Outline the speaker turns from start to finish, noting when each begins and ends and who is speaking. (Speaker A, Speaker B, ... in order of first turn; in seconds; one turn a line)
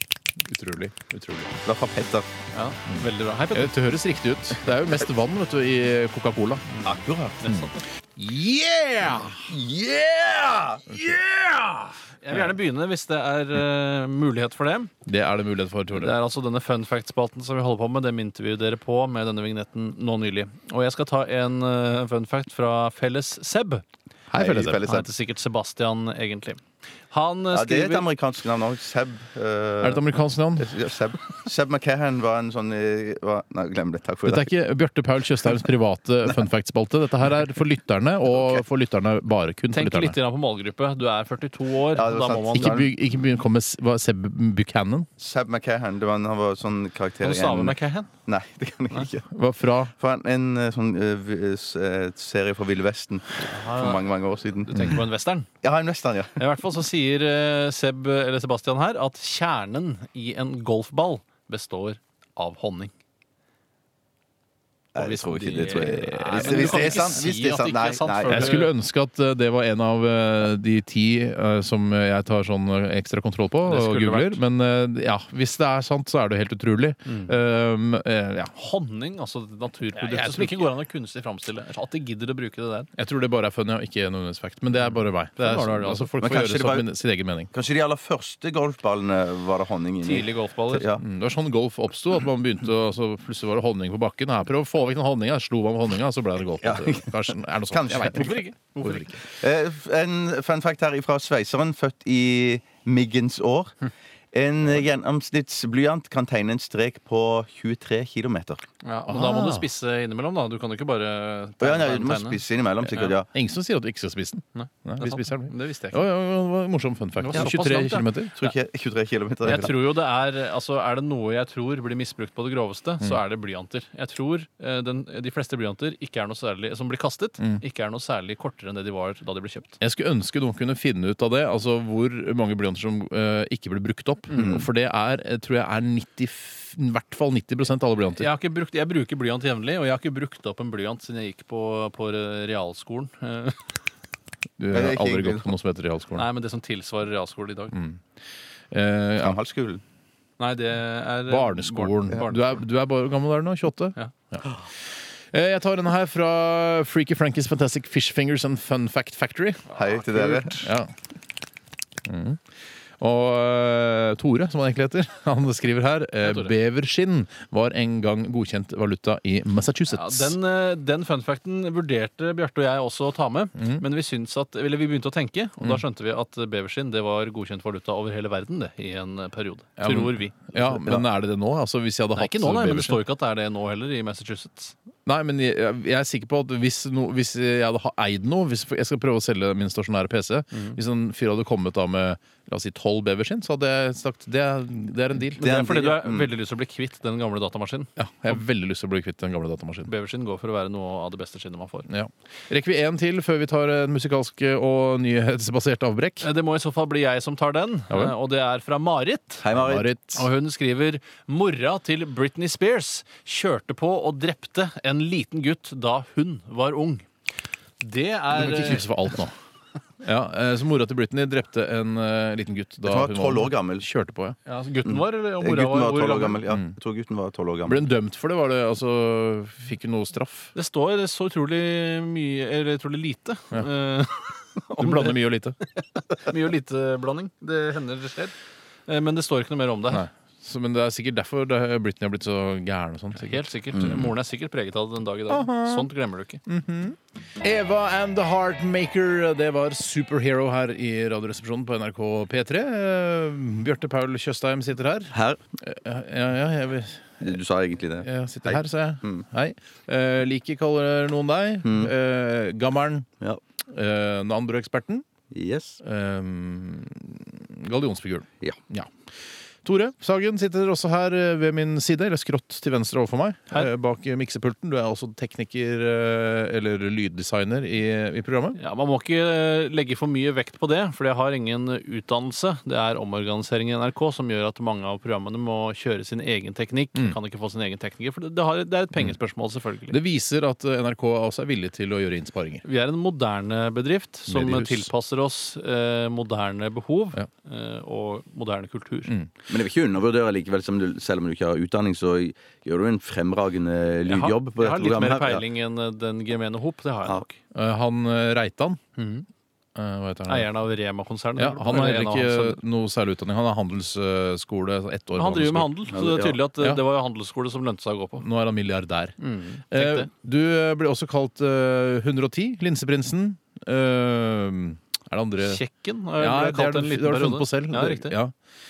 Speaker A: 0.4-1.5
Speaker B: 1.6-2.3
Speaker C: 2.5-3.8
Speaker A: 3.5-6.6
Speaker C: 6.7-7.8
Speaker B: 6.8-7.4
Speaker A: 7.5-9.5
Speaker B: 9.3-11.9
Speaker A: 10.9-11.2
Speaker C: 12.2-14.9
Speaker A: 15.0-16.2
Speaker C: 15.9-23.8
Speaker A: 24.3-24.8
Speaker B: 24.3-25.1
Speaker C: 24.7-28.0
Speaker B: 27.5-30.1
Speaker A: 29.8-30.8
Speaker B: 30.6-34.5
Speaker A: 34.2-40.2
Speaker C: 39.7-42.9
Speaker B: 41.9-42.9
Speaker A: 42.5-45.1
Speaker B: 45.2-49.3
Speaker C: 47.2-48.1
Speaker A: 49.3-49.9
Speaker B: 49.9-55.0
Speaker C: 53.4-54.0
Speaker C: 54.6-55.5
Speaker B: 55.6-56.4
Speaker C: 56.4-62.9
Speaker B: 64.9-68.6
Speaker C: 65.0-68.7
Speaker A: 66.0-67.2
Speaker A: 68.3-78.5
Speaker C: 73.6-74.4
Speaker C: 77.0-77.3
Speaker C: 78.5-82.9
Speaker A: 80.0-80.6
Speaker A: 83.0-87.5
Speaker C: 84.8-86.1
Speaker B: 86.2-86.9
Speaker B: 87.5-91.0
Speaker C: 90.0-90.9
Speaker A: 91.0-99.1
Speaker B: 96.6-98.4
Speaker C: 98.0-99.2
Speaker B: 99.2-103.7
Speaker B: 104.3-108.6
Speaker C: 108.8-113.1
Speaker A: 109.1-109.7
Speaker B: 111.6-113.3
Speaker A: 113.3-118.3
Speaker C: 114.5-116.0
Speaker C: 117.2-118.5
Speaker B: 118.3-119.8
Speaker C: 119.4-129.8
Speaker A: 119.5-119.7
Speaker A: 129.8-138.3
Speaker C: 134.3-134.6
Speaker B: 134.3-134.7
Speaker C: 138.2-143.8
Speaker A: 144.6-146.2
Speaker B: 144.7-145.5
Speaker C: 146.2-147.7
Speaker A: 147.7-148.0
Speaker A: 148.7-149.4
Speaker B: 149.2-149.8
Speaker C: 150.4-152.6
Speaker A: 151.3-159.6
Speaker C: 159.7-160.6
Speaker B: 159.7-160.7
Speaker A: 160.6-160.9
Speaker A: 162.0-162.4
Speaker A: 163.0-170.3
Speaker C: 166.2-166.5
Speaker C: 169.9-180.5
Speaker A: 173.6-173.8
Speaker A: 179.8-183.0
Speaker B: 180.5-181.0
Speaker C: 182.2-184.7
Speaker A: 185.1-195.4
Speaker C: 195.4-197.9
Speaker B: 195.4-196.3
Speaker A: 198.0-199.9
Speaker C: 199.8-201.9
Speaker A: 201.9-206.3
Speaker C: 206.2-209.4
Speaker B: 209.4-209.9
Speaker A: 209.5-210.2
Speaker C: 210.1-217.1
Speaker C: 217.8-219.2
Speaker A: 218.3-219.3
Speaker A: 220.0-224.4
Speaker B: 222.8-223.8
Speaker C: 224.4-226.4
Speaker B: 224.8-227.8
Speaker A: 227.7-230.5
Speaker C: 230.5-238.3
Speaker A: 234.8-235.6
Speaker C: 238.9-240.0
Speaker A: 239.9-244.1
Speaker C: 243.1-246.4
Speaker B: 243.7-244.1
Speaker A: 245.3-245.9
Speaker A: 246.4-257.4
Speaker B: 255.1-255.4
Speaker B: 257.2-259.2
Speaker A: 258.0-263.1
Speaker B: 261.6-261.9
Speaker A: 263.7-265.0
Speaker B: 265.3-265.8
Speaker A: 265.8-268.9
Speaker A: 269.6-278.6
Speaker C: 278.6-290.0
Speaker A: 289.9-292.6
Speaker C: 292.6-299.1
Speaker A: 294.3-294.9
Speaker B: 299.5-305.4
Speaker C: 304.1-307.4
Speaker A: 307.5-308.8
Speaker C: 309.0-309.3
Speaker A: 309.8-310.5
Speaker C: 310.3-312.6
Speaker A: 311.4-315.8
Speaker C: 315.1-318.2
Speaker B: 315.9-316.4
Speaker A: 318.2-319.2
Speaker C: 319.2-320.1
Speaker A: 319.7-325.6
Speaker C: 325.4-328.1
Speaker A: 326.2-328.3